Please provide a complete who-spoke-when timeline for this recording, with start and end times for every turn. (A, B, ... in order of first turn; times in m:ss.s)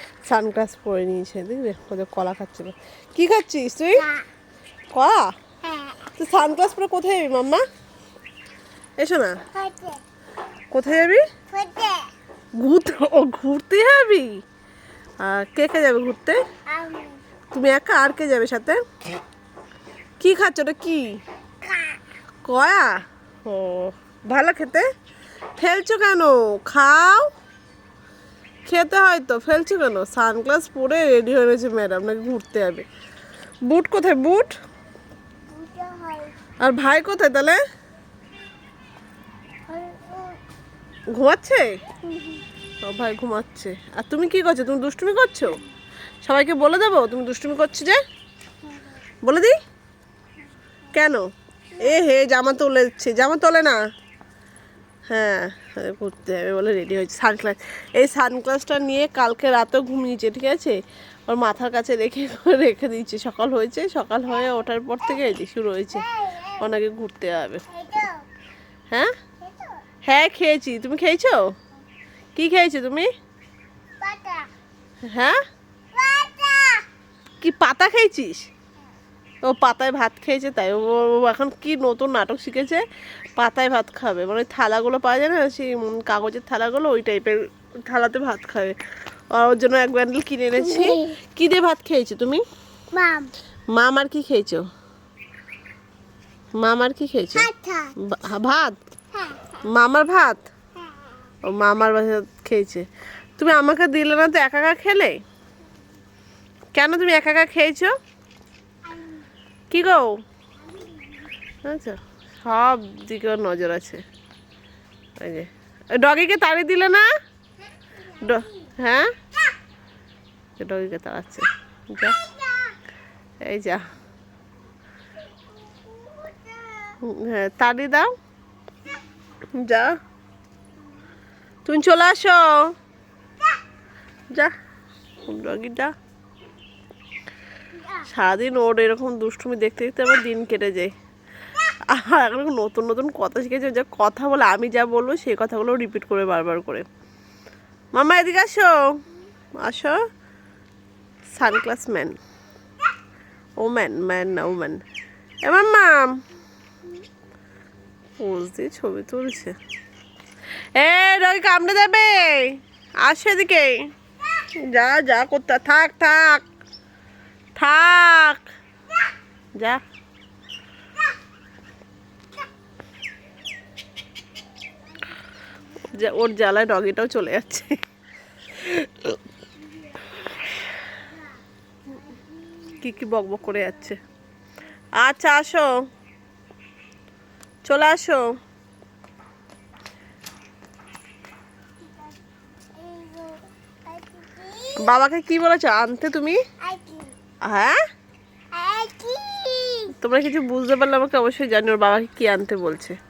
0:00.3-0:04.1 A
0:04.9-0:05.3 A
0:05.6-0:06.1 B
0:06.2-0:07.6 A
0:09.0-0:09.4 A
0:09.5-0:10.0 B
0:10.7-0:11.2 A
0:11.5-0:12.1 B
0:12.6-0:14.4 A
0:15.2-0:16.4 A
0:16.7-0:17.2 B
0:17.5-0:18.8 A
0:20.2-0:21.2 A
0:21.7-0:22.0 B
0:22.4-0:24.9 A
0:25.6-0:27.3 A
0:28.7-0:32.9 A
0:33.7-0:34.5 A
0:35.5-0:36.3 B
0:36.6-0:37.6 A
0:39.7-0:40.4 B
0:41.1-0:41.8 A
0:42.0-0:42.4 B
0:42.8-0:45.6 A
0:46.2-0:48.0 A
0:49.2-0:49.6 A
0:50.9-0:51.2 A
0:51.8-0:53.8 A
0:55.1-1:06.0 A
1:05.9-1:06.7 B
1:06.6-1:07.6 A
1:07.7-1:08.2 B
1:09.4-1:09.8 B
1:10.0-1:11.5 A
1:12.4-1:13.1 A
1:14.0-1:14.5 B
1:15.1-1:15.4 A
1:15.9-1:16.9 B
1:17.4-1:18.5 A
1:19.4-1:22.8 A
1:23.4-1:28.8 A
1:29.3-1:32.4 A
1:30.6-1:31.1 B
1:32.9-1:33.3 B
1:33.7-1:34.6 A
1:36.6-1:38.8 A
1:37.4-1:37.9 B
1:39.1-1:39.6 B
1:39.7-1:40.5 A
1:41.5-1:42.9 A
1:43.4-1:45.2 A
1:46.7-1:48.0 A
1:49.7-1:50.2 A
1:51.6-1:54.0 A
1:55.2-1:57.1 A
1:58.2-1:59.2 A
2:00.6-2:02.3 A
2:02.4-2:02.7 B
2:03.4-2:03.9 A
2:05.6-2:07.0 B
2:07.0-2:08.1 A
2:09.6-2:10.0 A
2:11.6-2:12.8 A
2:15.2-2:15.9 A
2:18.0-2:20.9 A
2:21.9-2:26.9 A
2:27.9-2:28.8 A
2:29.6-2:30.0 A
2:31.3-2:32.2 A
2:33.6-2:34.8 A
2:35.4-2:36.2 A
2:38.2-2:39.6 A
2:40.8-2:43.9 A
2:44.6-2:46.5 A
2:47.6-2:48.4 A
2:55.8-2:57.8 A
2:58.6-2:59.2 A
3:02.8-3:04.0 A
3:05.0-3:05.7 A
3:07.7-3:08.3 A
3:11.8-3:14.8 B
3:14.8-3:16.4 A
3:16.6-3:17.1 B
3:17.5-3:17.8 A
3:18.5-3:19.9 B
3:19.9-3:23.0 A